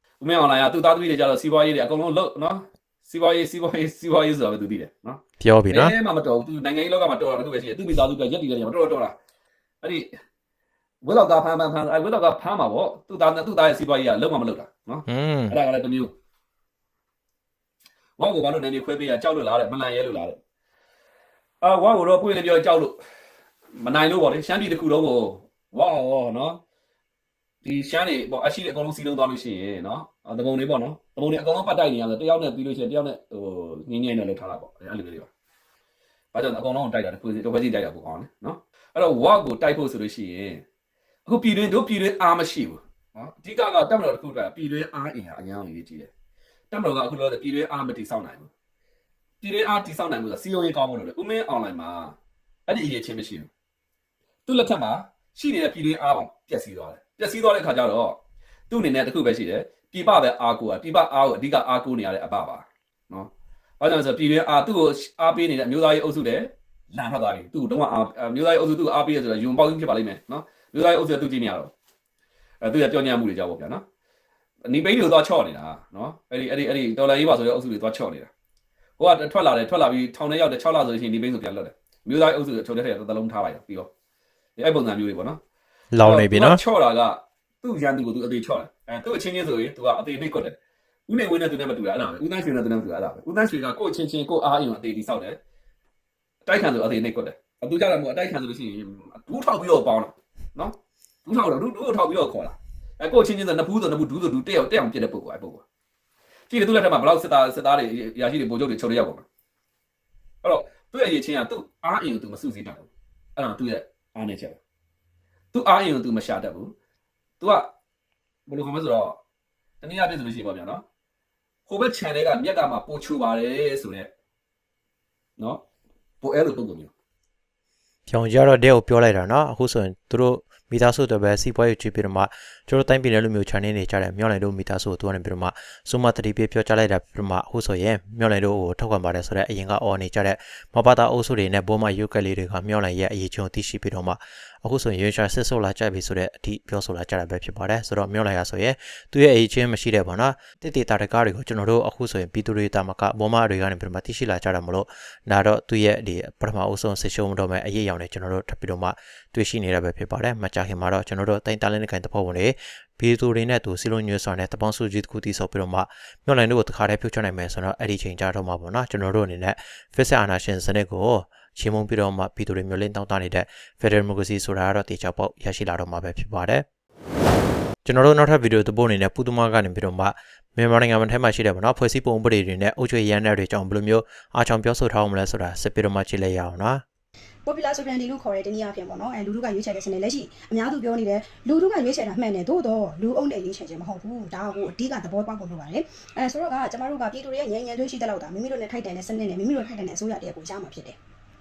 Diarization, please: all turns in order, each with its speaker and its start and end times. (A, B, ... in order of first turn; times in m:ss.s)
0:00.2-0:09.1 A
0:05.4-0:06.0 B
0:09.8-0:10.1 A
0:11.0-0:16.1 A
0:15.1-0:15.6 B
0:18.2-0:20.4 A
0:21.6-0:23.0 A
0:23.7-0:26.6 A
0:27.6-0:35.3 A
0:36.3-0:40.6 A
0:41.2-0:46.1 A
0:46.7-0:48.5 A
0:49.4-0:52.2 A
0:52.7-0:53.5 A
0:54.4-0:58.2 A
0:58.7-1:11.7 A
1:12.6-1:13.8 A
1:14.6-1:18.3 A
1:19.0-1:23.9 A
1:24.6-1:25.4 A
1:25.9-1:26.6 B
1:26.0-1:30.6 A
1:31.1-1:35.4 A
1:36.4-1:45.6 A
1:46.5-1:49.2 A
1:50.4-1:54.6 A
1:55.5-1:56.7 A
1:57.4-1:57.7 A
1:58.5-1:59.2 A
1:59.8-2:00.8 A
2:01.7-2:04.1 A
2:05.4-2:05.6 A
2:06.2-2:06.9 A
2:08.1-2:56.6 B
2:57.8-3:06.8 B
3:07.4-3:21.0 C